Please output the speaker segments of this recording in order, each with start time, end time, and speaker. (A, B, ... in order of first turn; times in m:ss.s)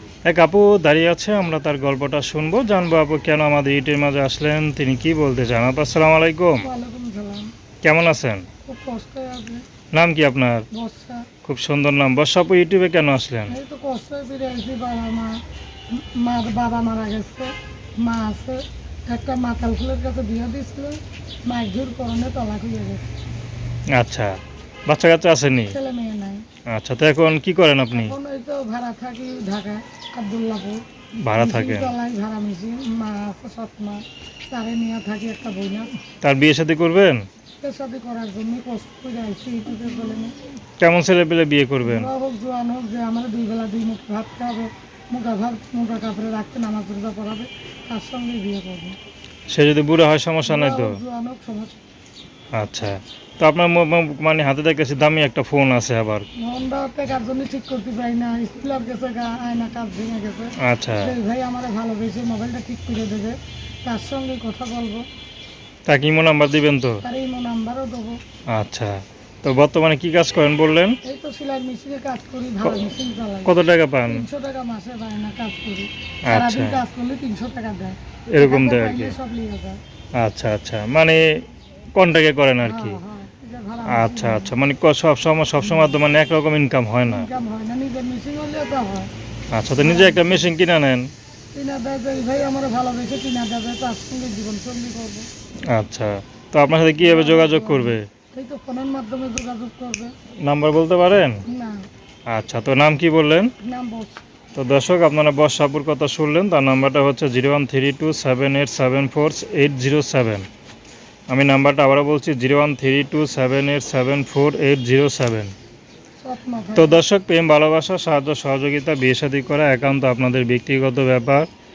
0:00.3-0:06.6 A
0:06.6-0:07.4 B
0:07.8-0:08.4 A
0:08.7-0:09.6 B
0:09.9-0:10.6 A
0:10.7-0:11.2 B
0:11.4-0:13.5 A
0:13.5-0:15.3 B
0:16.0-0:17.5 B
0:18.0-0:21.0 B
0:21.5-0:23.1 B
0:24.0-0:24.3 A
0:24.9-0:25.8 A
0:25.7-0:26.4 B
0:26.7-0:28.1 A
0:27.9-0:30.8 B
0:31.2-0:31.9 A
0:31.3-0:34.0 B
0:34.5-0:35.9 B
0:36.2-0:37.2 A
0:37.6-0:40.3 B
0:40.8-0:42.1 A
0:41.8-0:49.0 B
0:49.5-0:51.0 A
0:50.5-0:51.8 B
0:52.6-0:56.3 A
0:56.4-1:03.4 B
1:00.6-1:01.1 A
1:03.9-1:05.0 B
1:05.9-1:07.0 A
1:07.0-1:08.2 B
1:08.5-1:11.0 A
1:11.1-1:13.5 B
1:13.4-1:14.2 A
1:14.1-1:19.8 B
1:16.2-1:16.8 A
1:18.3-1:19.2 A
1:20.2-1:21.2 A
1:22.0-1:23.0 A
1:22.6-1:24.5 B
1:23.9-1:27.3 A
1:27.0-1:29.1 B
1:29.5-1:31.1 A
1:29.8-1:30.5 B
1:31.6-1:35.3 B
1:35.7-1:38.0 A
1:37.0-1:40.1 B
1:40.4-1:41.4 A
1:41.5-1:41.8 B
1:42.3-1:43.5 A
1:43.6-1:44.2 B
1:44.6-1:50.5 A
1:51.3-1:55.5 A
1:56.2-1:57.0 B
1:56.8-2:01.5 A